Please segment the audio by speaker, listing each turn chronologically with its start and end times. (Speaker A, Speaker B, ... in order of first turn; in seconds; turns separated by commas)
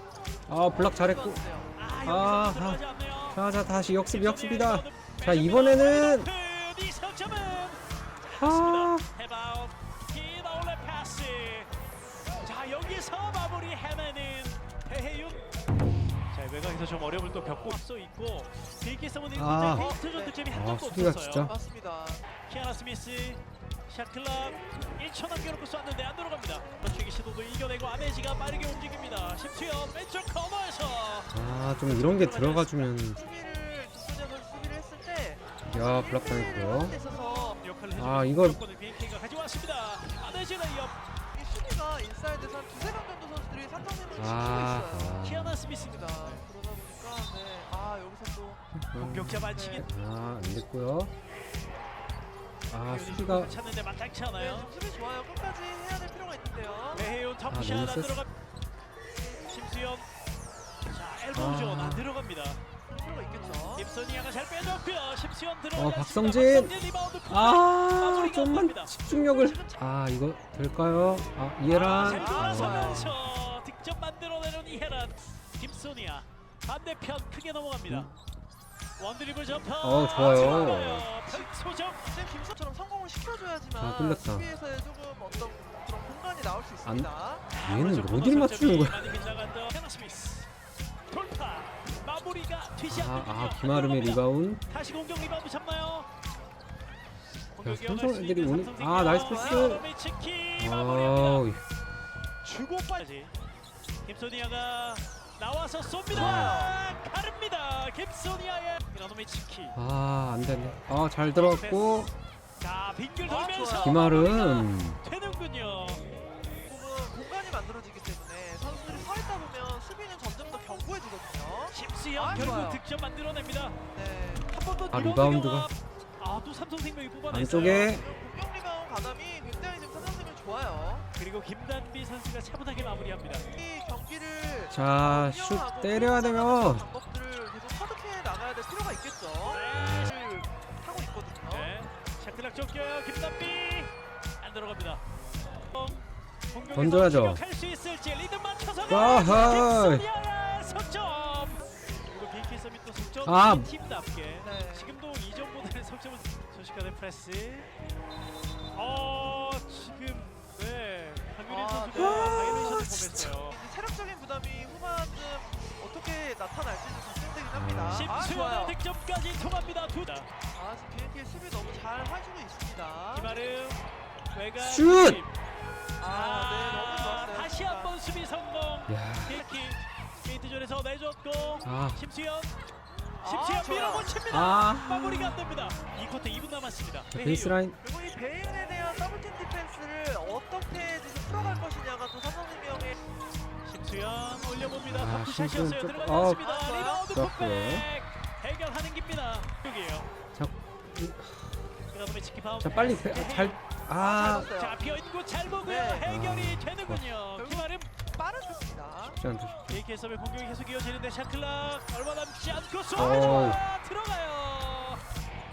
Speaker A: 0.5-1.4, Speaker B: 0.8-1.7, Speaker C: 1.8-3.4, Speaker A: 2.0-6.3, Speaker C: 4.1-11.7, Speaker A: 8.3-9.1, Speaker C: 12.4-15.4, Speaker C: 16.3-21.5, Speaker A: 19.4-19.9, Speaker B: 19.7-20.4, Speaker A: 20.4-21.5, Speaker B: 21.5-22.2, Speaker C: 22.4-31.3, Speaker A: 31.3-33.2, Speaker C: 32.0-32.8, Speaker B: 33.2-37.6, Speaker A: 35.7-37.0, Speaker C: 37.6-41.0, Speaker A: 38.0-38.6, Speaker B: 41.3-45.1, Speaker A: 44.1-45.6, Speaker C: 45.2-46.5, Speaker B: 45.9-48.6, Speaker A: 48.8-51.1, Speaker C: 49.0-49.9, Speaker A: 52.7-53.6, Speaker C: 52.9-54.7, Speaker B: 54.4-57.1, Speaker C: 56.9-58.3, Speaker A: 57.5-58.2, Speaker C: 59.5-60.1, Speaker C: 60.9-62.6, Speaker A: 61.3-62.1, Speaker B: 63.0-63.9, Speaker C: 63.8-68.9, Speaker A: 65.8-66.8, Speaker A: 67.3-73.2, Speaker B: 69.1-69.8, Speaker C: 71.6-78.1, Speaker B: 72.1-73.0, Speaker C: 79.0-82.0, Speaker A: 79.8-81.1, Speaker B: 80.4-87.5, Speaker A: 83.8-84.5, Speaker A: 86.9-89.2, Speaker C: 87.5-90.5, Speaker C: 91.1-96.1, Speaker A: 92.9-94.7, Speaker C: 97.5-101.5, Speaker A: 97.6-99.9, Speaker A: 100.6-101.6, Speaker C: 102.5-103.3, Speaker C: 104.0-109.8, Speaker A: 106.1-106.7, Speaker B: 106.4-106.7, Speaker A: 109.8-112.1, Speaker C: 111.3-116.0, Speaker B: 113.2-114.0, Speaker A: 113.8-115.0, Speaker B: 116.7-122.8, Speaker C: 121.7-123.8, Speaker A: 122.3-122.7, Speaker B: 123.9-124.5, Speaker C: 124.5-128.0, Speaker A: 124.9-125.7, Speaker A: 127.3-128.1, Speaker B: 127.9-131.1, Speaker C: 131.1-133.6, Speaker B: 133.5-141.7, Speaker A: 134.7-136.9, Speaker C: 139.4-140.1, Speaker A: 139.7-140.1, Speaker C: 141.5-145.0, Speaker C: 145.7-157.7, Speaker A: 146.7-147.4, Speaker A: 148.9-150.1, Speaker A: 153.2-153.7, Speaker B: 154.4-154.9, Speaker C: 158.7-163.6, Speaker B: 161.5-168.8, Speaker A: 162.0-163.2, Speaker A: 167.5-168.2, Speaker C: 167.9-170.3, Speaker B: 170.5-173.3, Speaker C: 173.1-173.8, Speaker C: 174.3-175.3, Speaker A: 174.6-175.2, Speaker B: 176.0-177.9, Speaker C: 176.0-182.6, Speaker A: 178.9-179.4, Speaker A: 181.7-182.0, Speaker B: 183.2-184.2, Speaker C: 183.2-187.6, Speaker A: 184.3-185.4, Speaker A: 187.1-187.8, Speaker B: 187.8-193.0, Speaker A: 191.3-191.7, Speaker C: 193.7-200.1, Speaker A: 194.9-196.5, Speaker B: 196.4-197.1, Speaker A: 197.1-197.9, Speaker A: 200.3-201.7, Speaker C: 201.9-203.6, Speaker A: 202.6-204.6, Speaker B: 204.0-204.8, Speaker C: 204.5-207.9, Speaker B: 205.6-206.1, Speaker A: 206.0-207.1, Speaker B: 207.4-209.2, Speaker A: 209.0-209.8, Speaker C: 209.7-215.0, Speaker A: 212.9-213.6